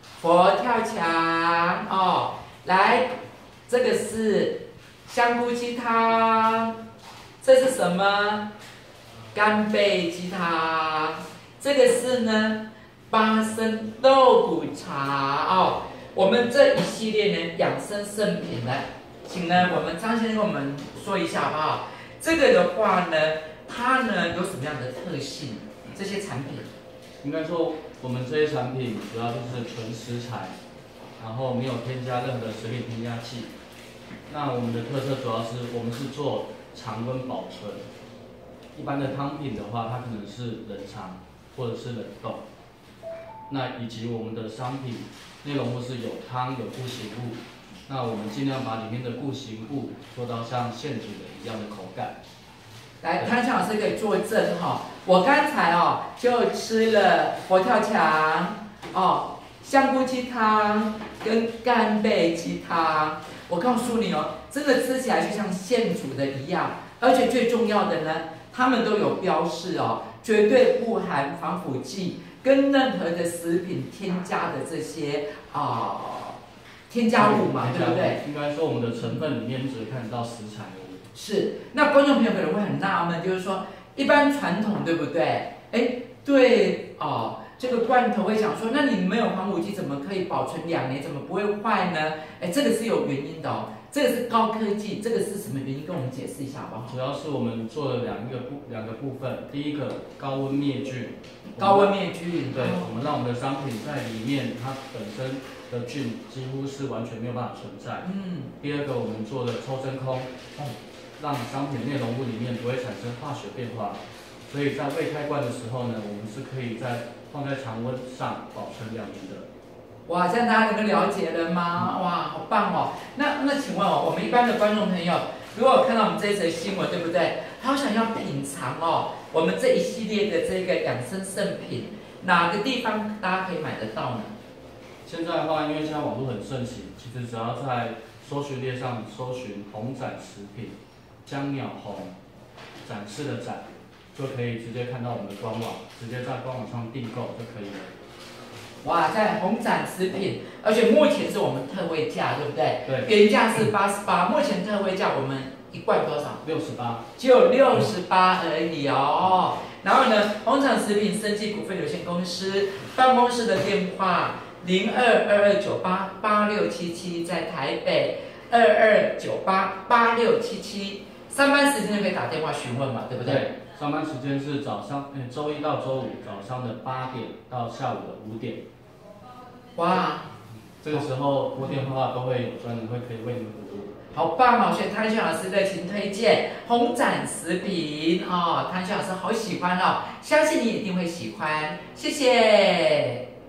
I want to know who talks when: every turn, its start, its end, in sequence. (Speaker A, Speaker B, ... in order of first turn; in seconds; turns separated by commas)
Speaker A: 0.2-3.1, Speaker A: 3.7-6.7, Speaker A: 7.4-8.4, Speaker A: 9.3-26.7, Speaker B: 27.2-30.6, Speaker B: 31.2-33.5, Speaker B: 34.3-37.9, Speaker B: 38.7-42.4, Speaker B: 43.5-52.1, Speaker A: 53.0-76.4, Speaker A: 76.9-78.2, Speaker B: 77.2-81.0, Speaker A: 81.1-96.9, Speaker B: 96.9-101.9, Speaker A: 101.5-103.1, Speaker B: 102.5-108.1, Speaker A: 108.0-108.5, Speaker B: 108.6-110.3, Speaker B: 111.2-119.5, Speaker A: 120.0-134.3, Speaker B: 135.0-142.1, Speaker B: 142.8-147.9, Speaker A: 148.8-156.4, Speaker B: 156.4-157.0, Speaker A: 157.2-173.5, Speaker B: 173.2-178.6, Speaker A: 179.7-180.3, Speaker B: 180.8-183.9, Speaker A: 184.1-193.2